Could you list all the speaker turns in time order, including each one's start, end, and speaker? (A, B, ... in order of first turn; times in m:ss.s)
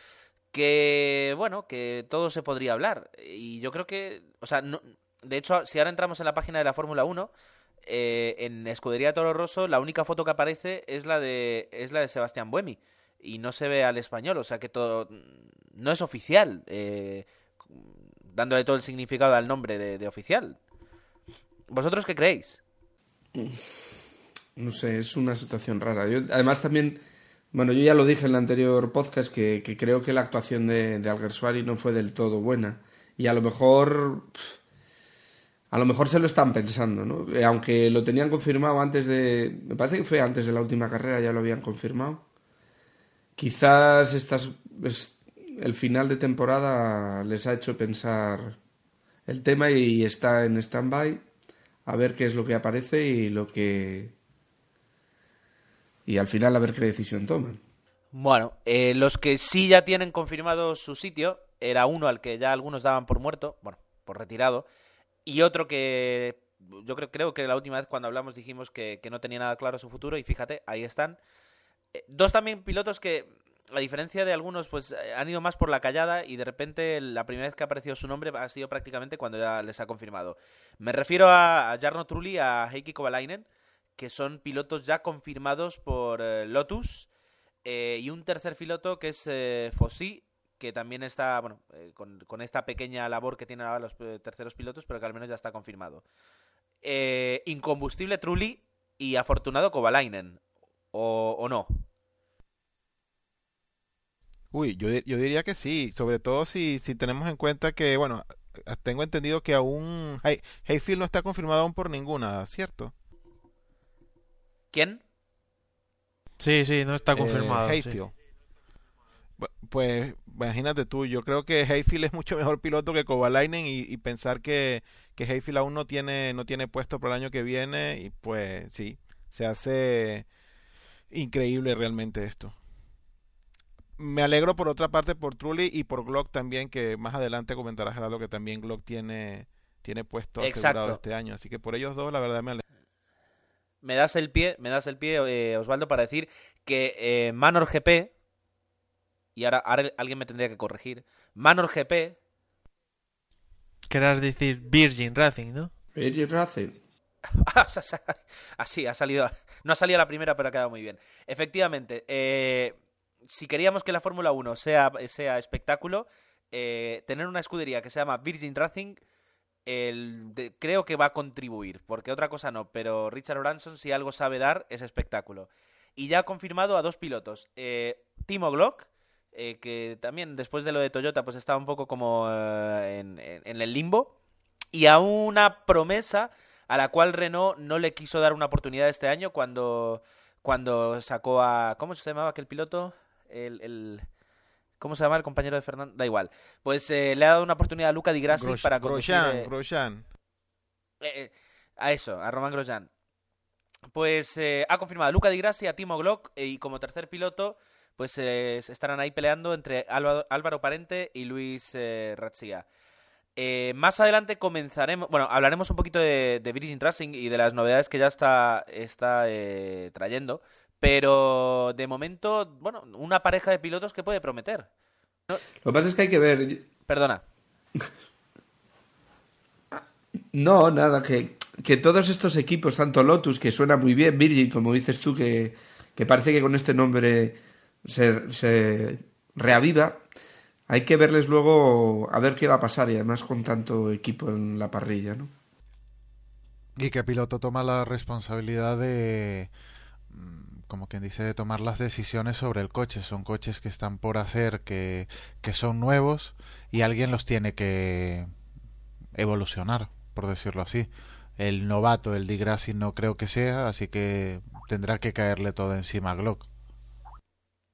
0:00.5-0:07.3 A
0:07.9-0:20.6 A
0:21.7-0:22.6 A
0:23.4-0:23.8 B
0:24.6-0:27.0 B
0:27.5-0:34.6 B
0:35.7-0:42.2 B
0:43.4-0:48.6 B
0:49.3-0:51.2 B
0:51.9-0:54.2 B
0:56.1-0:57.6 B
0:58.1-1:04.7 A
1:05.3-1:11.2 A
1:12.0-1:23.5 A
1:24.0-1:27.1 A
1:27.6-1:36.0 A
1:36.8-1:40.4 A
1:40.9-1:41.8 A
1:44.5-1:52.9 C
1:54.7-1:55.0 A
1:56.4-1:58.0 D
1:57.1-1:58.1 C
1:59.4-2:10.3 C
2:11.1-2:12.6 C
2:14.0-2:22.6 C
2:20.4-2:21.0 A
2:23.8-2:28.1 A
2:29.4-2:32.2 A
2:33.9-2:35.7 D
2:36.0-2:36.8 B
2:37.3-2:42.8 A
2:43.3-2:49.0 A
2:49.7-3:04.1 A
3:04.7-3:14.0 A
3:14.8-3:19.5 A
3:18.3-3:20.0 C
3:21.0-3:22.9 A
3:23.9-3:32.7 A
3:33.4-3:44.7 A
3:45.6-3:46.7 B
3:46.9-3:47.2 A
3:49.7-4:00.0 B
4:00.7-4:05.3 B
4:06.8-4:09.5 E
4:10.1-4:18.3 E
4:19.2-4:26.5 E